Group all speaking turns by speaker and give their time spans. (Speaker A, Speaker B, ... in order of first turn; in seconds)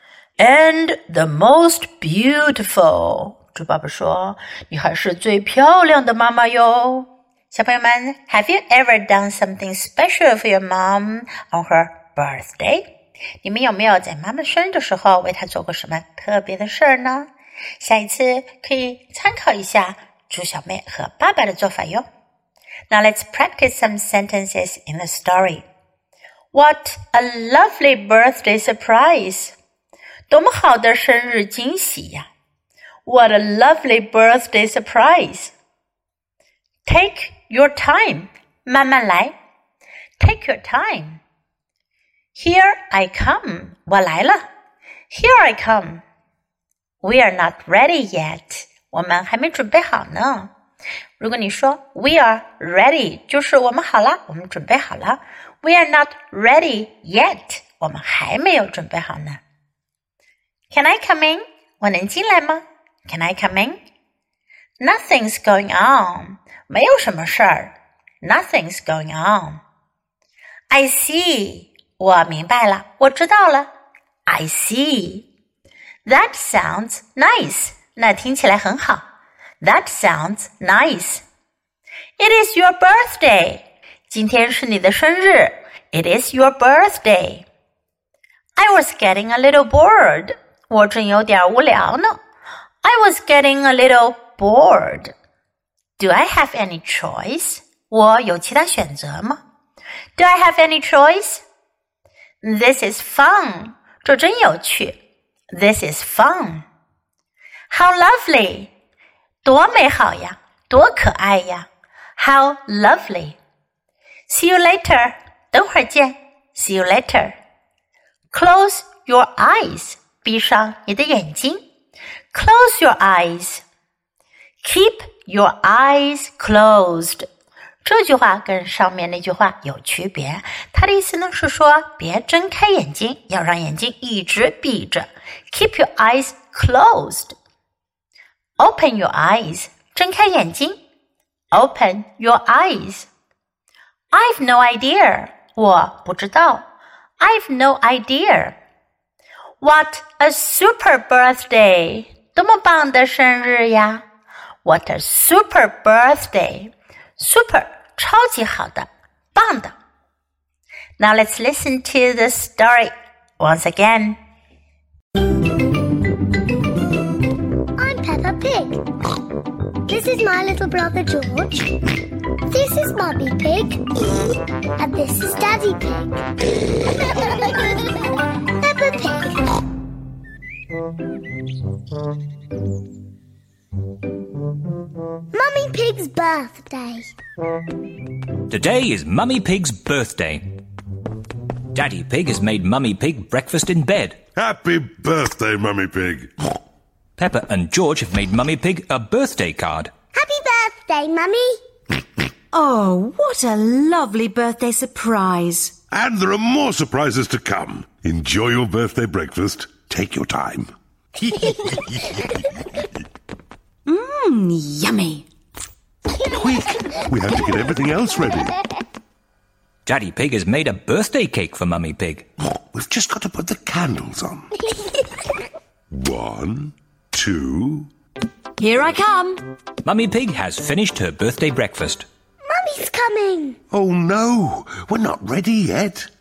Speaker A: 0.4-12.8, 13.4-22.1, 22.9-25.7, 26.5-29.6, 30.3-32.3, 33.0-35.5, 36.9-39.3, 40.2-41.2, 42.4-44.5, 45.1-46.0, 47.0-50.5, 51.2-59.4, 60.7-63.8, 64.8-69.6, 70.7-73.7, 74.3-75.3, 76.0-79.0, 79.6-81.2, 82.2-87.5, 88.6-92.2, 92.8-95.1, 96.0-99.4, 100.2-101.4, 102.4-105.0, 105.5-106.7, 107.7-108.7, 109.4-111.7, 112.2-113.4, 114.3-117.4, 118.3-121.6, 122.3-123.6, 124.6-127.3, 127.8-137.4, 138.6-140.8, 141.5-143.1, 144.1-146.6, 147.2-148.6, 149.6-154.0, 154.6-159.8, 161.0-164.2
Speaker B: 167.8-168.8, 169.9-173.8, 174.8-177.9, 178.6-179.4, 185.3-187.1, 200.1-201.6, 232.4-233.6
Speaker C: 188.5-190.4, 191.7-194.2, 197.2-199.9, 219.9-222.3, 229.8-232.1
Speaker D: 194.4-196.3, 205.9-210.7, 211.4-212.2, 216.2-218.5, 222.7-224.6, 225.9-227.9, 233.7-236.1
Speaker E: 202.5-205.7, 213.9-215.2, 228.6-229.4